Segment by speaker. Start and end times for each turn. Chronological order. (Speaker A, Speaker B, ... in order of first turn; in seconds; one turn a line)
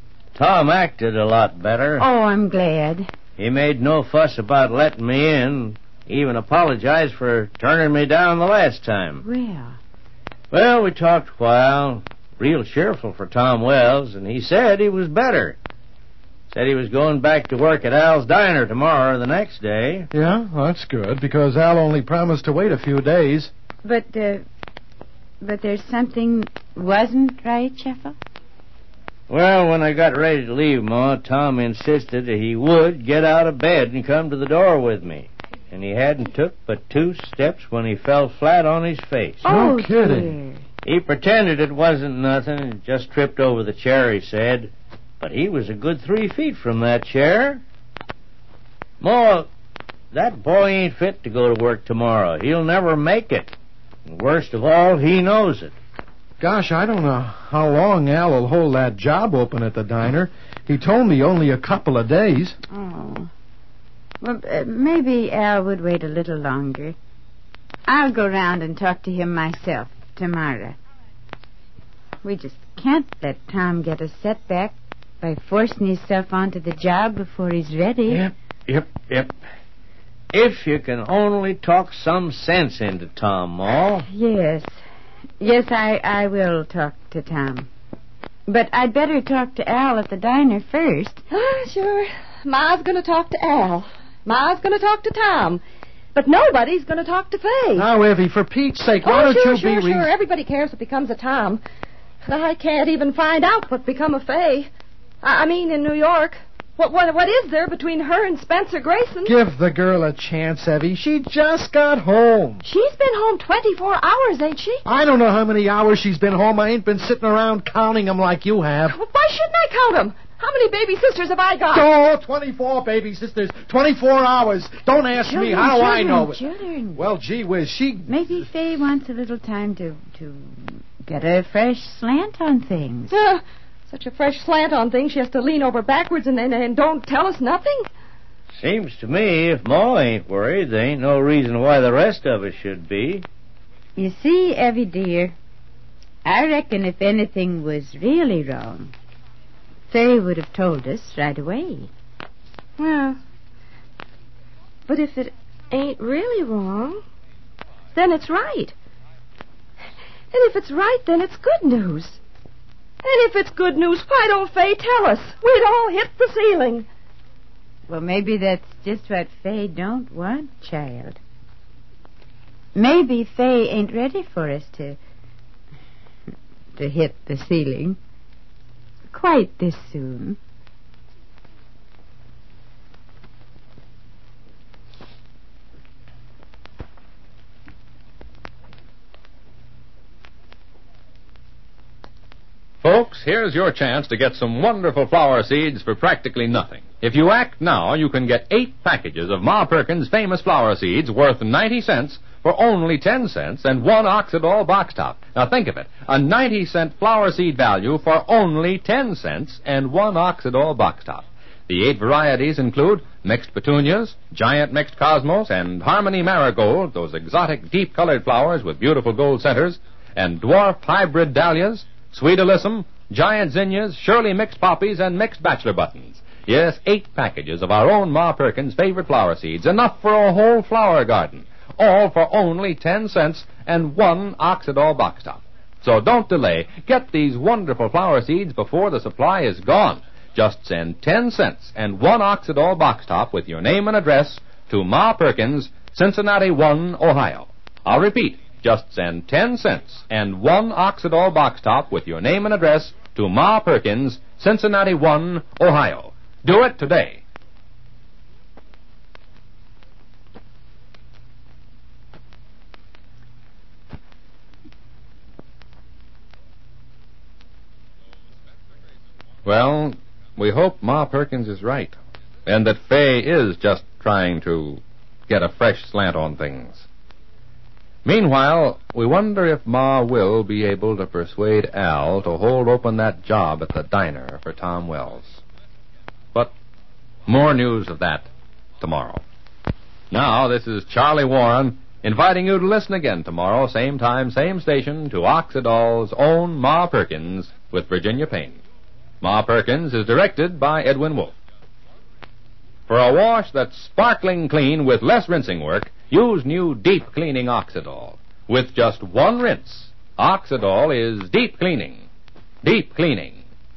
Speaker A: 0.3-2.0
Speaker B: 2.0-3.1
Speaker A: 3.4-9.2
Speaker B: 9.2-9.8
Speaker A: 10.5-15.6
Speaker A: 16.5-20.1
Speaker C: 20.1-23.5
Speaker B: 23.8-24.4
Speaker B: 25.4-28.1
Speaker A: 29.3-39.4
Speaker B: 39.4-40.6
Speaker C: 39.4-40.4
Speaker A: 40.8-47.6
Speaker A: 49.0-49.5
Speaker A: 50.1-53.5
Speaker A: 54.1-55.7
Speaker C: 56.4-62.6
Speaker B: 62.7-63.3
Speaker B: 64.2-67.0
Speaker B: 67.9-70.8
Speaker B: 72.2-78.3
Speaker A: 78.1-79.3
Speaker A: 80.3-84.0
Speaker B: 84.1-84.7
Speaker B: 85.4-87.7
Speaker B: 88.5-91.2
Speaker D: 91.3-95.6
Speaker D: 96.1-97.8
Speaker C: 97.8-100.0
Speaker D: 99.0-101.6
Speaker D: 102.2-104.7
Speaker D: 105.2-109.3
Speaker C: 109.2-112.6
Speaker D: 112.6-114.8
Speaker C: 114.9-118.9
Speaker D: 118.9-121.8
Speaker C: 121.8-126.4
Speaker B: 125.2-127.0
Speaker C: 127.0-128.1
Speaker B: 128.1-133.2
Speaker D: 133.1-137.9
Speaker A: 138.5-143.2
Speaker B: 144.0-145.3
Speaker B: 146.2-148.9
Speaker B: 149.9-151.9
Speaker D: 152.8-153.2
Speaker D: 154.9-157.0
Speaker D: 157.9-158.8
Speaker D: 160.3-162.2
Speaker D: 163.0-166.9
Speaker B: 167.9-171.2
Speaker B: 172.8-175.0
Speaker B: 176.8-178.0
Speaker B: 179.1-180.4
Speaker E: 192.8-257.2
Speaker E: 269.4-276.9
Speaker E: 278.0-285.4
Speaker E: 287.3-288.3
Speaker E: 288.8-289.2
Speaker E: 290.1-298.6
Speaker E: 299.2-301.4
Speaker E: 302.9-312.0
Speaker E: 312.6-313.4